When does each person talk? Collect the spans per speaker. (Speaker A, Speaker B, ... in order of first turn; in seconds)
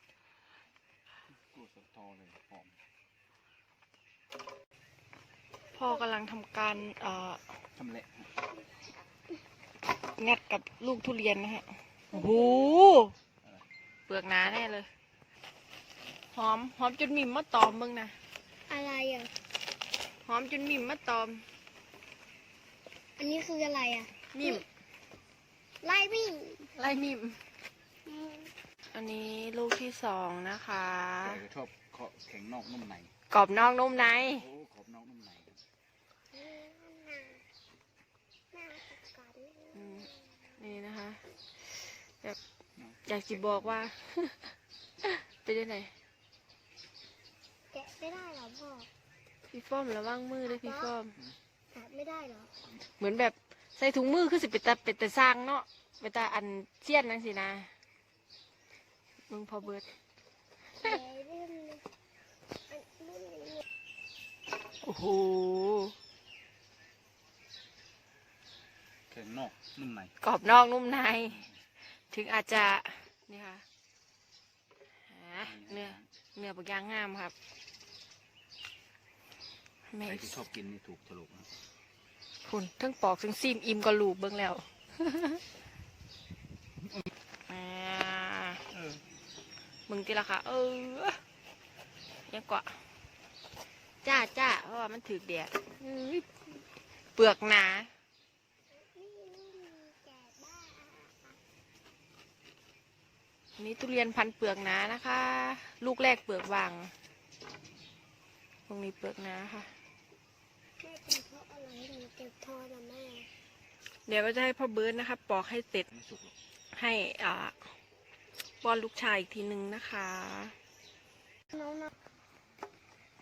Speaker A: 1.5-2.7, 7.8-8.3, 31.2-33.1, 34.3-35.6, 42.8-43.7, 69.1-70.1, 75.4-76.0, 80.0-81.5, 88.7-89.0, 115.9-116.3
Speaker B: 5.7-7.4, 10.2-13.1, 14.1-14.9, 16.3-18.1, 20.2-21.4, 24.3-24.6, 26.7-27.4, 28.9-31.4, 33.3-34.4, 39.7-42.4, 43.0-45.9, 49.5-51.2, 53.0-57.7, 59.3-59.8, 64.8-65.9, 70.2-71.5, 72.1-73.6, 75.1-77.3, 79.9-80.4, 82.4-85.4, 87.5-88.6, 89.9-91.2, 92.3-92.8, 94.0-96.2, 97.1-97.9, 103.6-106.9, 108.7-109.7, 114.1-115.9, 116.7-117.5, 118.6-120.5
Speaker C: 12.1-12.7, 18.7-19.3, 23.2-24.6, 25.8-26.7, 28.1-28.5, 36.3-37.4, 38.5-40.1, 47.7-48.9, 50.5-50.9, 51.7-52.5, 60.8-61.8, 62.7-63.6, 95.8-96.2, 98.7-101.4, 110.8-113.3, 121.5-121.9